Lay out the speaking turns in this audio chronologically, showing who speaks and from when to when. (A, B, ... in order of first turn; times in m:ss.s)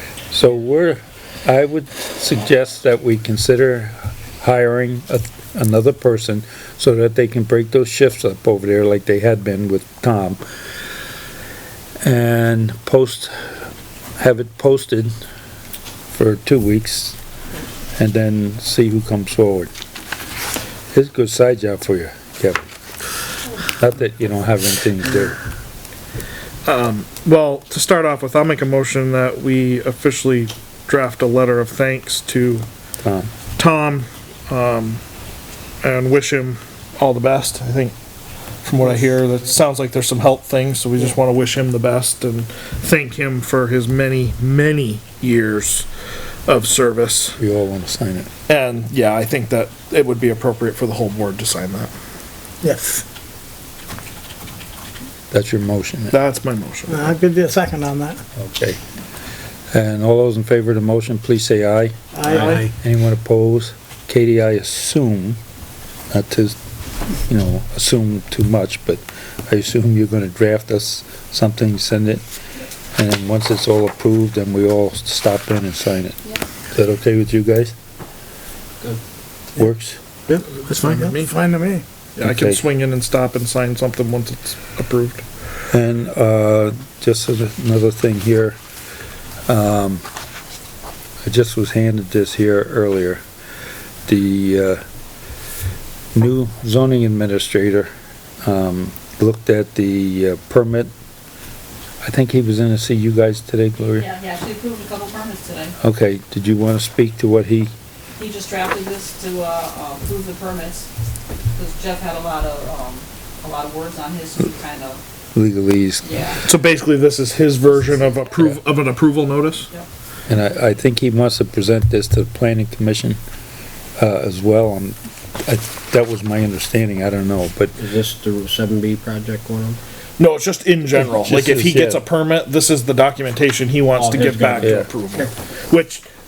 0:00.3-0:10.4 A
0:12.0-0:13.3 A
0:14.2-0:15.1 A
0:16.1-0:17.2 A
0:18.0-0:19.7 A
0:20.9-0:22.6 A
0:23.8-0:25.4 A
0:26.6-0:32.6 B
0:33.0-0:33.3 A
0:33.6-0:35.0 B
0:35.8-0:37.9 B
0:38.6-0:45.9 B
0:46.4-0:47.4 B
0:47.4-0:48.3 A
0:48.5-0:51.9 B
0:52.6-0:53.0 C
0:55.3-0:56.1 A
0:56.1-0:57.1 B
0:56.9-0:58.2 C
0:58.4-0:58.8 A
0:59.7-1:05.4 A
1:02.1-1:02.7 C
1:06.1-1:06.5 A
1:07.3-1:12.2 A
1:13.0-1:16.2 A
1:16.7-1:17.7 A
1:19.6-1:20.0 A
1:20.3-1:21.8 C
1:20.5-1:21.4 B
1:22.2-1:25.2 B
1:22.2-1:22.6 A
1:25.7-1:28.6 A
1:29.5-1:30.0 A
1:31.2-1:33.2 A
1:34.1-1:34.8 A
1:36.1-1:37.9 A
1:38.4-1:40.9 A
1:42.0-1:44.1 A
1:43.9-1:45.7 D
1:45.8-1:47.7 A
1:48.2-1:50.9 D
1:51.6-1:55.0 D
1:55.3-1:56.1 A
1:56.0-1:56.4 D
1:56.4-1:59.7 B
1:57.7-1:58.3 D
2:00.3-2:03.2 A
2:04.0-2:07.8 A
2:07.8-2:09.8 E
2:10.2-2:16.0 B
2:11.1-2:12.0 A
2:14.0-2:15.3 E
2:14.6-2:14.9 A